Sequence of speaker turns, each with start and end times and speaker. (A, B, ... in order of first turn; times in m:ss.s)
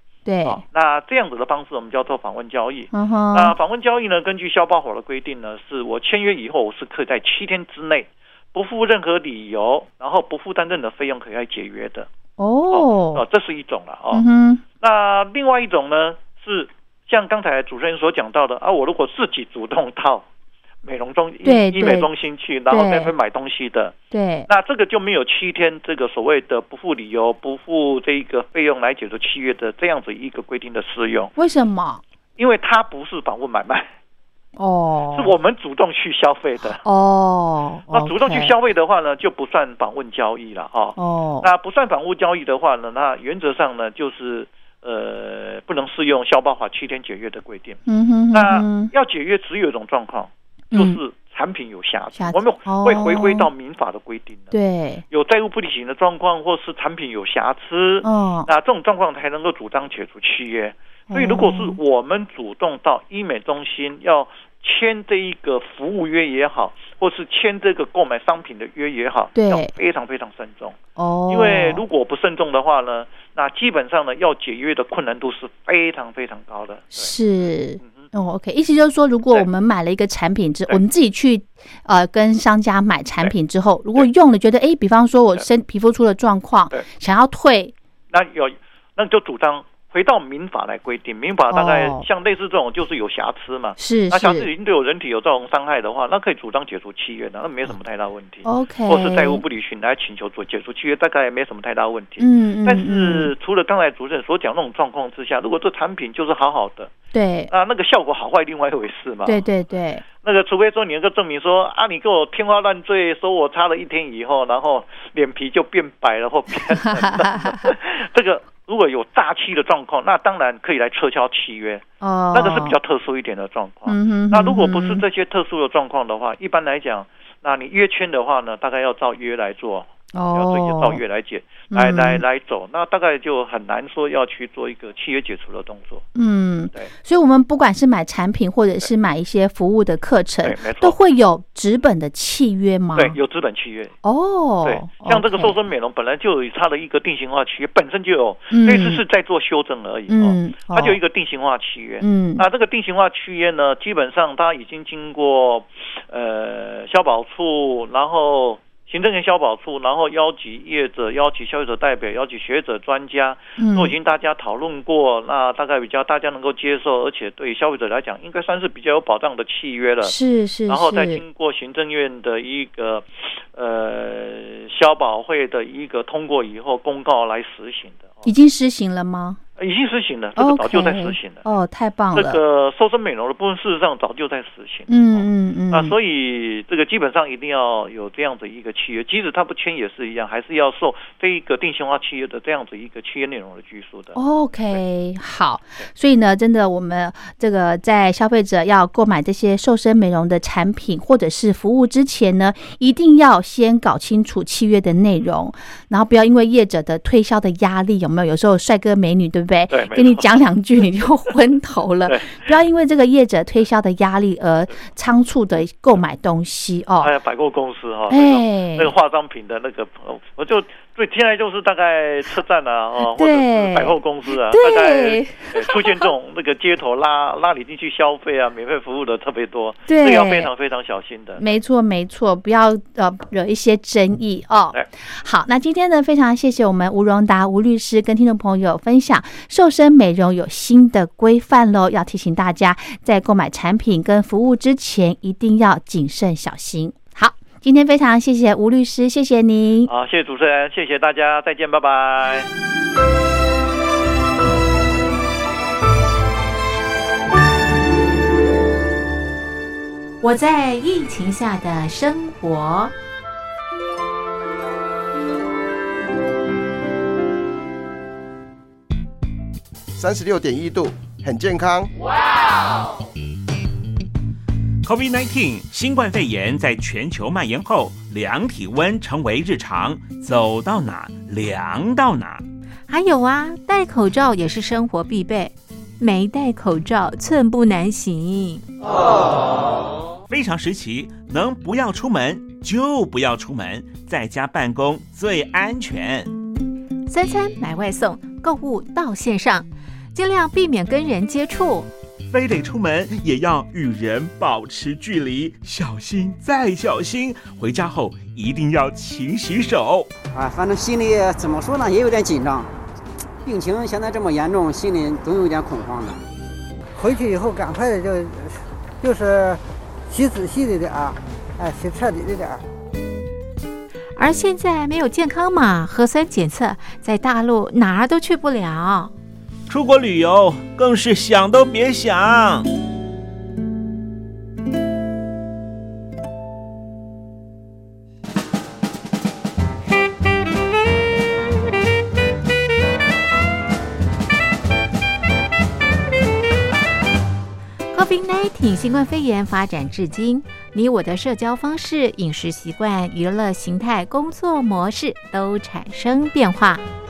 0:00.2-0:00.6 A
0:00.4-0:12.1 B
0:02.9-0:03.6 A
0:12.4-0:13.2 A
0:12.7-0:14.2 B
0:14.1-0:14.6 A
0:14.8-0:20.2 B
0:20.8-0:23.9 B
0:21.4-0:22.1 A
0:22.7-0:23.1 A
0:24.1-0:24.5 A
0:24.5-0:31.3 B
0:31.4-0:32.0 A
0:32.4-0:33.9 B
0:34.6-0:35.3 A
0:35.1-0:36.8 B
0:36.8-0:38.5 A
0:37.9-0:47.8 B
0:41.0-0:41.5 A
0:47.8-0:48.9 A
0:48.3-0:54.5 B
0:50.7-0:51.0 A
0:52.2-0:53.5 A
0:54.5-0:55.0 A
0:55.1-1:10.8 B
0:58.0-0:58.5 A
1:01.1-1:01.8 A
1:09.3-1:09.7 A
1:11.0-1:11.8 A
1:11.3-1:17.1 B
1:16.9-1:27.7 A
1:17.8-1:18.1 B
1:28.1-1:46.9 B
1:31.5-1:32.0 A
1:33.8-1:34.5 A
1:38.4-1:39.4 A
1:42.2-1:43.3 A
1:47.1-1:47.5 A
1:47.5-1:49.4 B
1:49.2-1:50.0 A
1:50.2-2:16.0 B
1:57.0-1:57.7 A
2:02.0-2:02.8 A
2:03.9-2:05.0 A
2:10.1-2:11.0 A
2:11.7-2:12.2 A
2:16.1-2:23.2 A
2:20.4-2:21.0 B
2:22.9-2:23.9 B
2:24.0-2:25.6 A
2:24.6-2:50.1 B
2:28.5-2:29.0 A
2:30.1-2:31.0 A
2:32.0-2:32.4 A
2:43.6-2:43.9 A
2:50.0-2:51.2 A
2:50.7-2:58.3 B
2:58.2-2:59.4 A
2:59.6-3:01.5 B
3:00.4-3:02.4 A
3:02.1-3:14.2 B
3:04.9-3:06.0 A
3:14.1-3:37.1 A
3:29.7-3:30.4 B
3:32.0-3:32.5 B
3:37.0-3:51.5 B
3:38.1-3:38.9 A
3:43.0-3:46.1 A
3:49.9-3:50.5 A
3:51.4-4:09.9 A
4:09.9-4:12.5 B
4:20.2-4:22.9 C
4:29.9-4:31.9 D
4:34.8-4:42.4 E
4:42.9-4:48.6 C
4:50.3-4:56.3 E
4:57.1-5:01.9 C
5:02.3-5:10.1 E
5:10.3-5:12.7 F
5:13.4-5:16.2 F
5:16.9-5:22.6 G
5:24.2-5:29.1 C
5:29.7-5:32.7 E
5:47.9-5:56.8 C